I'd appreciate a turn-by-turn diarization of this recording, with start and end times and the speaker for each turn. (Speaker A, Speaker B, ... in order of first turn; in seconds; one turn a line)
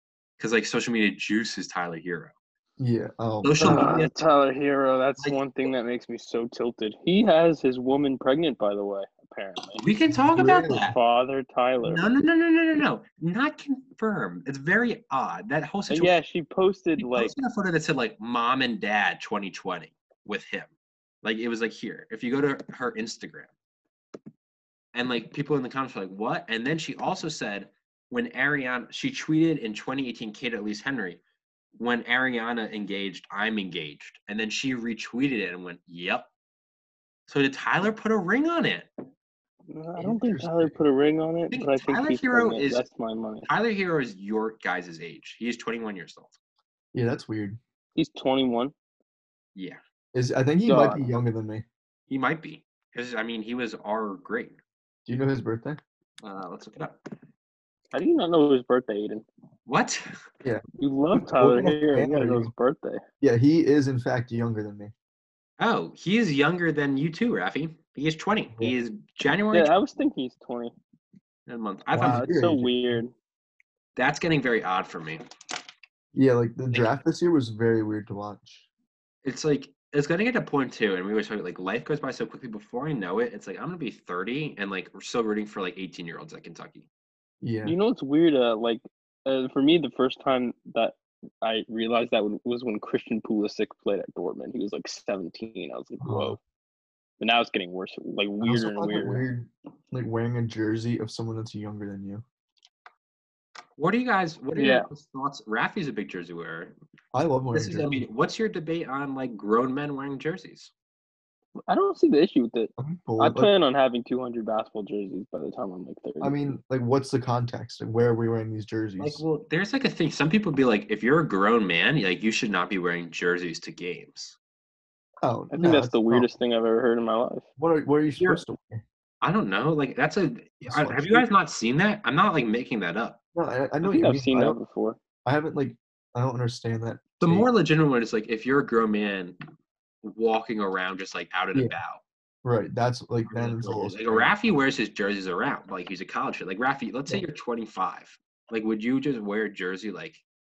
Speaker A: 0.4-2.3
Speaker B: 2.8-4.1
Speaker A: 3.4-4.1
Speaker C: 3.6-9.8
Speaker A: 9.8-11.0
Speaker B: 10.3-10.8
Speaker C: 10.7-12.1
Speaker A: 11.8-16.1
Speaker C: 15.9-17.3
Speaker A: 17.0-20.7
Speaker A: 21.2-23.5
Speaker A: 24.9-31.2
Speaker A: 31.8-36.3
Speaker A: 37.3-38.9
Speaker C: 39.7-43.5
Speaker B: 40.0-40.8
Speaker A: 41.5-42.9
Speaker A: 43.4-46.4
Speaker B: 46.9-47.6
Speaker C: 48.0-48.7
Speaker A: 49.5-49.8
Speaker B: 50.1-51.6
Speaker C: 50.6-51.1
Speaker A: 52.1-54.6
Speaker B: 55.0-55.8
Speaker A: 56.2-57.0
Speaker C: 57.9-59.2
Speaker A: 59.6-60.0
Speaker C: 60.8-63.0
Speaker B: 61.2-62.5
Speaker B: 63.2-64.9
Speaker A: 65.6-69.7
Speaker C: 69.5-70.7
Speaker A: 71.5-72.2
Speaker B: 71.9-73.0
Speaker C: 72.0-73.1
Speaker A: 74.0-75.2
Speaker B: 76.1-78.6
Speaker A: 76.7-77.0
Speaker A: 79.2-86.9
Speaker B: 87.4-87.8
Speaker C: 87.6-96.4
Speaker B: 96.0-96.4
Speaker C: 97.2-99.2
Speaker B: 98.4-102.2
Speaker A: 103.8-106.7
Speaker C: 104.5-104.9
Speaker B: 107.1-108.0
Speaker A: 107.5-110.7
Speaker C: 111.7-116.6
Speaker B: 112.8-113.5
Speaker B: 116.2-119.2
Speaker A: 119.0-124.4
Speaker B: 125.2-126.3
Speaker C: 125.5-127.5
Speaker B: 127.6-128.8
Speaker A: 128.2-128.4
Speaker A: 129.2-133.2
Speaker B: 130.6-131.3
Speaker B: 133.3-134.6
Speaker C: 133.8-135.0
Speaker B: 135.2-137.5
Speaker A: 137.2-139.4
Speaker A: 140.0-142.0
Speaker B: 142.4-144.3
Speaker A: 143.3-150.2